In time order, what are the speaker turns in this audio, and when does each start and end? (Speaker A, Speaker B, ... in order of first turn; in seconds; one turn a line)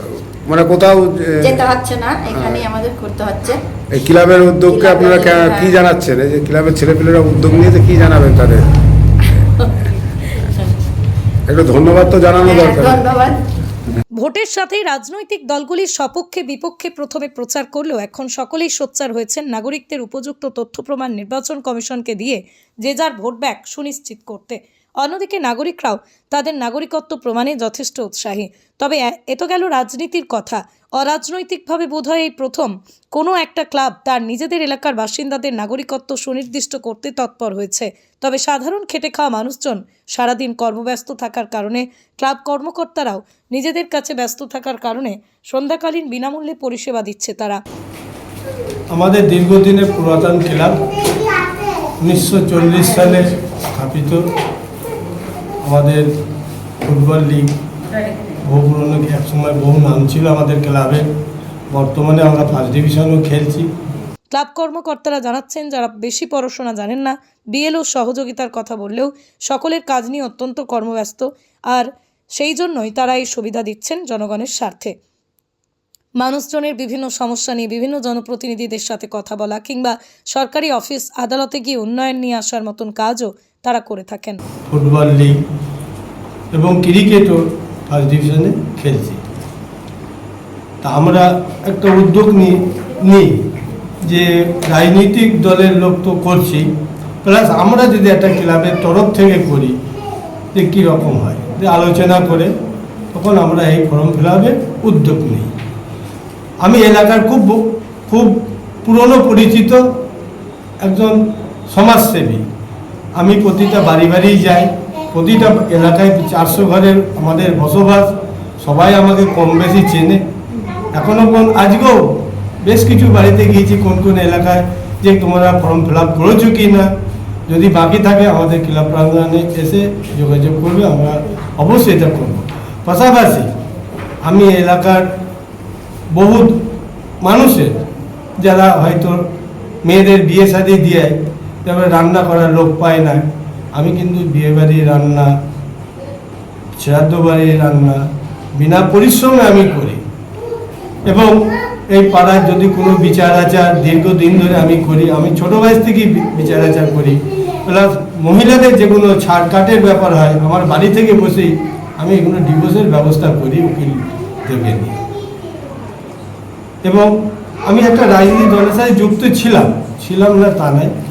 Speaker A: 0.5-1.8
Speaker B: 1.4-3.6
Speaker A: 2.3-2.7
Speaker A: 3.9-8.7
Speaker B: 4.7-5.7
Speaker A: 11.5-13.1
Speaker B: 12.5-13.3
Speaker C: 14.1-47.6
Speaker D: 48.9-50.8
Speaker D: 52.0-54.2
Speaker D: 55.6-56.1
Speaker D: 56.8-57.5
Speaker D: 58.4-61.0
Speaker D: 61.7-63.7
Speaker C: 64.3-75.0
Speaker C: 76.2-84.4
Speaker D: 84.7-85.4
Speaker D: 86.5-89.2
Speaker D: 90.8-93.3
Speaker D: 94.0-96.7
Speaker D: 97.2-99.8
Speaker D: 100.5-102.5
Speaker D: 103.1-105.5
Speaker D: 106.6-109.8
Speaker D: 110.8-111.2
Speaker D: 111.7-112.4
Speaker D: 113.2-120.2
Speaker D: 120.9-126.9
Speaker D: 127.5-133.5
Speaker D: 134.2-135.0
Speaker D: 136.1-136.6
Speaker D: 137.2-137.8
Speaker D: 138.4-139.2
Speaker D: 139.8-143.2
Speaker D: 143.7-145.3
Speaker D: 146.8-148.0
Speaker D: 148.6-150.0
Speaker D: 151.1-151.4
Speaker D: 151.9-165.0
Speaker D: 167.6-170.9